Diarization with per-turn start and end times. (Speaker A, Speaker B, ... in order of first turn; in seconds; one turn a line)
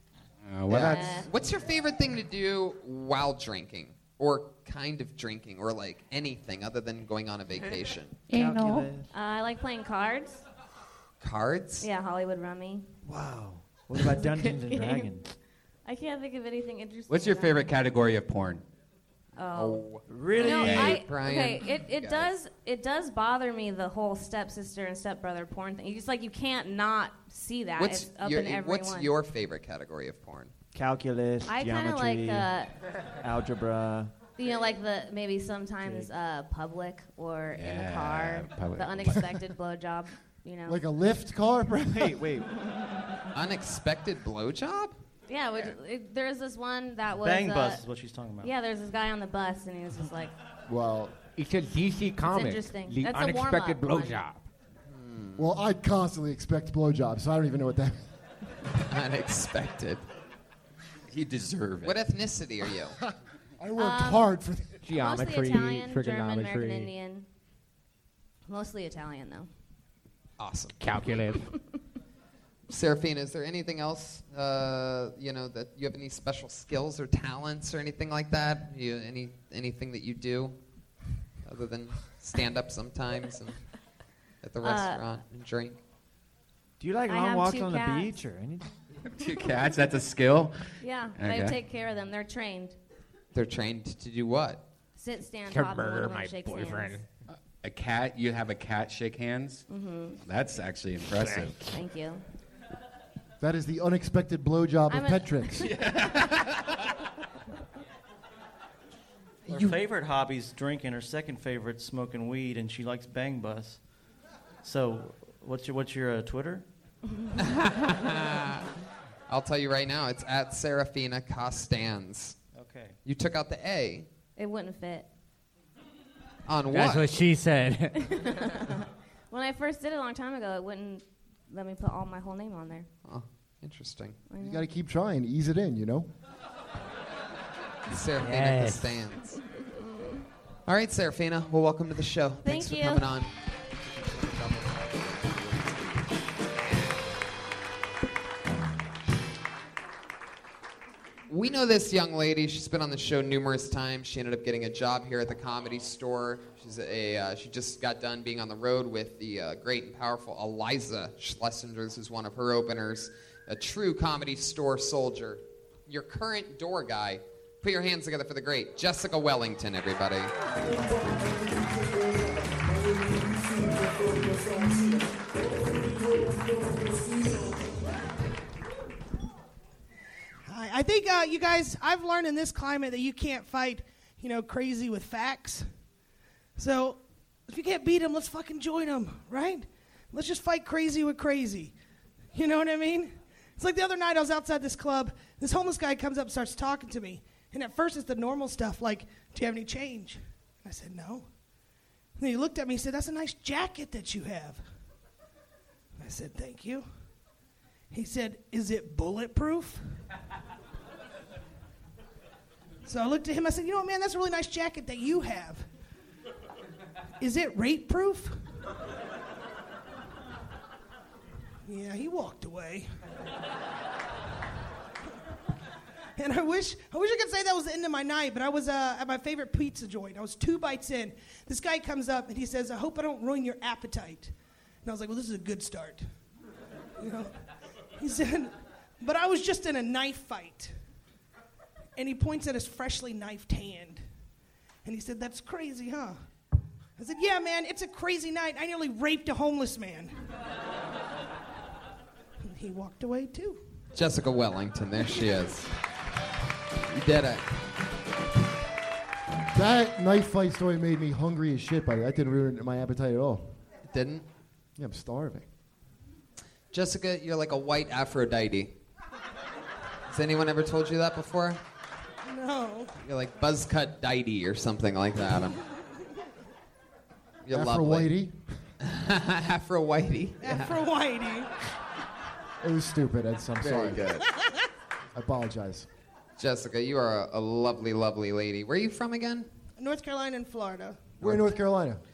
Speaker A: 0.5-1.2
Speaker B: 0.7-8.2
Speaker C: 0.7-1.3
Speaker D: 8.3-9.1
Speaker C: 9.1-10.4
Speaker B: 11.2-11.9
Speaker C: 11.8-12.9
Speaker D: 13.1-15.3
Speaker C: 14.1-15.1
Speaker C: 15.8-17.7
Speaker A: 17.1-18.6
Speaker C: 19.4-29.1
Speaker B: 19.5-22.3
Speaker D: 20.1-20.9
Speaker A: 20.7-21.0
Speaker B: 27.8-30.5
Speaker D: 30.7-32.5
Speaker C: 31.4-32.7
Speaker D: 33.2-34.1
Speaker C: 34.4-40.8
Speaker A: 37.6-39.4
Speaker E: 40.7-42.2
Speaker D: 41.9-42.5
Speaker C: 42.7-43.1
Speaker B: 43.4-45.0
Speaker C: 45.3-47.8
Speaker F: 47.2-48.5
Speaker C: 48.4-50.3
Speaker E: 50.7-51.1
Speaker G: 51.4-54.5
Speaker C: 52.3-54.2
Speaker B: 54.9-55.6
Speaker E: 55.4-58.0
Speaker B: 58.9-60.0
Speaker A: 61.1-62.0
Speaker B: 61.8-63.0
Speaker E: 63.6-64.8
Speaker C: 63.8-64.3
Speaker G: 64.8-66.9
Speaker C: 64.9-67.3
Speaker C: 68.5-69.5
Speaker B: 70.4-70.7
Speaker G: 70.8-71.5
Speaker B: 72.7-80.6
Speaker B: 81.5-83.6
Speaker B: 84.4-85.8
Speaker C: 84.6-85.0
Speaker D: 86.8-88.7
Speaker C: 87.1-88.2
Speaker A: 89.1-90.5
Speaker C: 90.8-92.8
Speaker A: 91.2-91.6
Speaker B: 93.3-94.6
Speaker C: 95.0-97.0
Speaker G: 95.5-97.1
Speaker A: 97.6-99.6
Speaker C: 99.7-100.2
Speaker A: 100.2-101.6
Speaker G: 101.1-101.7
Speaker C: 101.6-102.2
Speaker E: 103.4-105.8
Speaker C: 104.9-105.7
Speaker A: 105.8-106.1
Speaker F: 109.5-113.8
Speaker F: 114.6-116.7
Speaker B: 117.4-118.6
Speaker B: 119.3-122.4
Speaker F: 122.6-123.0
Speaker B: 123.0-124.1
Speaker C: 124.4-125.1
Speaker B: 126.5-127.1
Speaker H: 126.7-127.9
Speaker C: 127.9-132.9
Speaker B: 133.1-134.2
Speaker C: 134.3-134.6
Speaker E: 134.4-136.1
Speaker B: 137.9-139.4
Speaker H: 138.2-138.9
Speaker B: 140.7-143.3
Speaker C: 142.4-143.1
Speaker B: 151.3-170.3
Speaker I: 180.4-185.7
Speaker I: 186.6-191.7
Speaker I: 192.3-201.3
Speaker I: 202.2-204.6
Speaker I: 206.0-206.9
Speaker I: 207.9-209.8
Speaker I: 212.8-215.6
Speaker I: 217.2-218.4
Speaker I: 221.7-222.9
Speaker I: 226.2-234.3
Speaker I: 234.8-236.0
Speaker I: 237.0-237.3
Speaker I: 238.0-240.7
Speaker I: 241.9-244.0
Speaker I: 244.8-246.2
Speaker I: 247.0-250.1
Speaker I: 252.4-253.6
Speaker B: 253.9-255.7
Speaker B: 256.9-257.5
Speaker E: 259.5-263.6
Speaker B: 263.9-264.2
Speaker E: 264.8-265.4
Speaker B: 266.7-268.7
Speaker B: 270.1-271.6
Speaker I: 272.3-272.9
Speaker B: 273.0-275.6
Speaker B: 277.4-278.1
Speaker E: 277.5-278.4
Speaker B: 278.8-280.8
Speaker I: 280.4-281.5
Speaker E: 282.6-284.0
Speaker B: 283.6-284.2
Speaker E: 285.1-285.9
Speaker B: 286.4-289.5
Speaker I: 289.8-291.3
Speaker E: 291.2-292.0